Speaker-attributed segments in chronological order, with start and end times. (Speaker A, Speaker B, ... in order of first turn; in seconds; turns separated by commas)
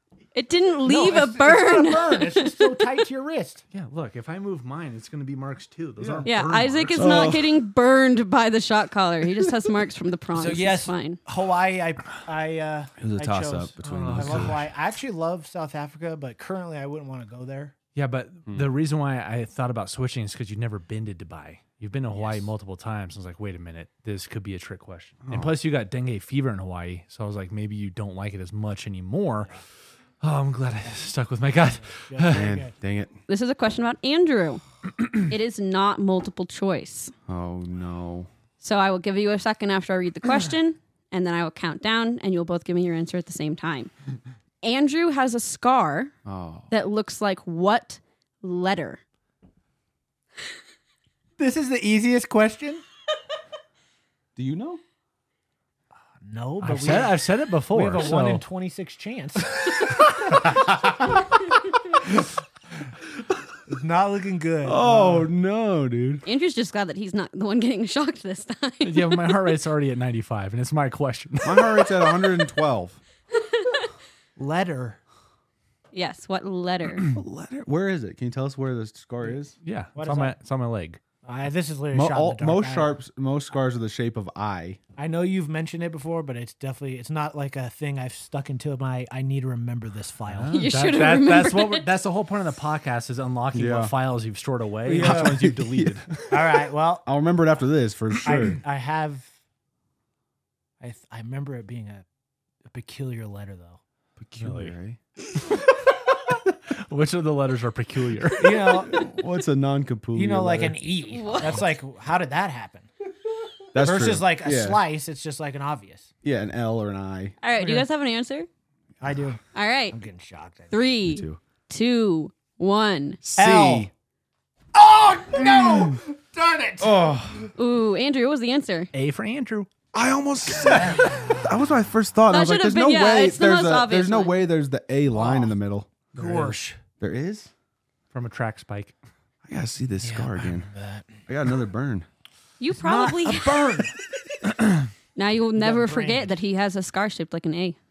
Speaker A: 0.3-2.9, Speaker B: 0.8-3.6, Speaker C: 3.7-7.4, Speaker D: 6.0-6.3, Speaker A: 6.3-11.2, Speaker D: 6.9-7.5, Speaker B: 10.3-17.8, Speaker D: 13.0-14.6, Speaker C: 13.8-14.6, Speaker C: 17.9-29.5, Speaker B: 22.1-22.5, Speaker D: 25.3-25.6, Speaker C: 30.2-32.5, Speaker B: 32.1-32.7, Speaker D: 32.3-33.1, Speaker A: 33.3-37.1, Speaker D: 37.3-38.3, Speaker A: 38.6-43.9, Speaker A: 44.6-46.1, Speaker D: 46.2-46.7, Speaker A: 46.7-49.0, Speaker B: 51.4-52.8, Speaker D: 54.4-54.8, Speaker B: 56.2-57.2, Speaker C: 56.6-58.4, Speaker B: 57.7-60.4, Speaker B: 63.7-65.3, Speaker D: 64.6-66.2, Speaker A: 66.2-69.2, Speaker C: 68.8-71.9, Speaker D: 71.4-73.0, Speaker B: 74.4-75.0, Speaker A: 75.9-77.1, Speaker D: 77.1-79.5, Speaker C: 79.6-81.0, Speaker B: 80.0-80.3, Speaker B: 81.2-82.9, Speaker D: 81.9-84.8, Speaker B: 85.0-90.5, Speaker C: 90.3-96.3, Speaker A: 90.5-91.9, Speaker D: 93.5-93.9, Speaker D: 94.9-96.0, Speaker B: 94.9-95.3, Speaker B: 96.3-97.1, Speaker D: 97.0-98.6, Speaker B: 98.2-99.3, Speaker B: 100.8-102.0, Speaker B: 102.7-103.8, Speaker D: 104.2-105.0, Speaker C: 104.3-104.7, Speaker C: 105.5-105.9, Speaker C: 106.5-109.0, Speaker B: 108.4-109.1, Speaker D: 108.9-111.7, Speaker B: 110.2-112.9, Speaker A: 111.1-111.7, Speaker D: 113.7-114.8, Speaker B: 113.8-116.1, Speaker D: 116.2-117.3, Speaker A: 117.4-118.5, Speaker B: 117.6-117.9, Speaker B: 119.0-120.9, Speaker A: 119.5-120.0, Speaker A: 120.7-123.2, Speaker D: 121.0-121.4, Speaker D: 123.2-123.9, Speaker B: 123.4-123.9, Speaker B: 124.7-127.1, Speaker D: 125.4-126.0, Speaker D: 126.8-127.5, Speaker A: 127.5-128.9, Speaker C: 128.9-129.7, Speaker D: 129.9-136.4, Speaker B: 130.8-131.5, Speaker A: 132.3-134.4, Speaker B: 135.1-135.6, Speaker B: 136.1-136.8, Speaker C: 136.2-136.6, Speaker D: 137.0-137.5, Speaker C: 138.1-138.9, Speaker D: 139.4-140.7, Speaker B: 140.0-141.1, Speaker D: 141.3-142.1, Speaker A: 142.6-143.6, Speaker B: 142.7-144.0, Speaker A: 145.2-147.8, Speaker B: 145.6-146.3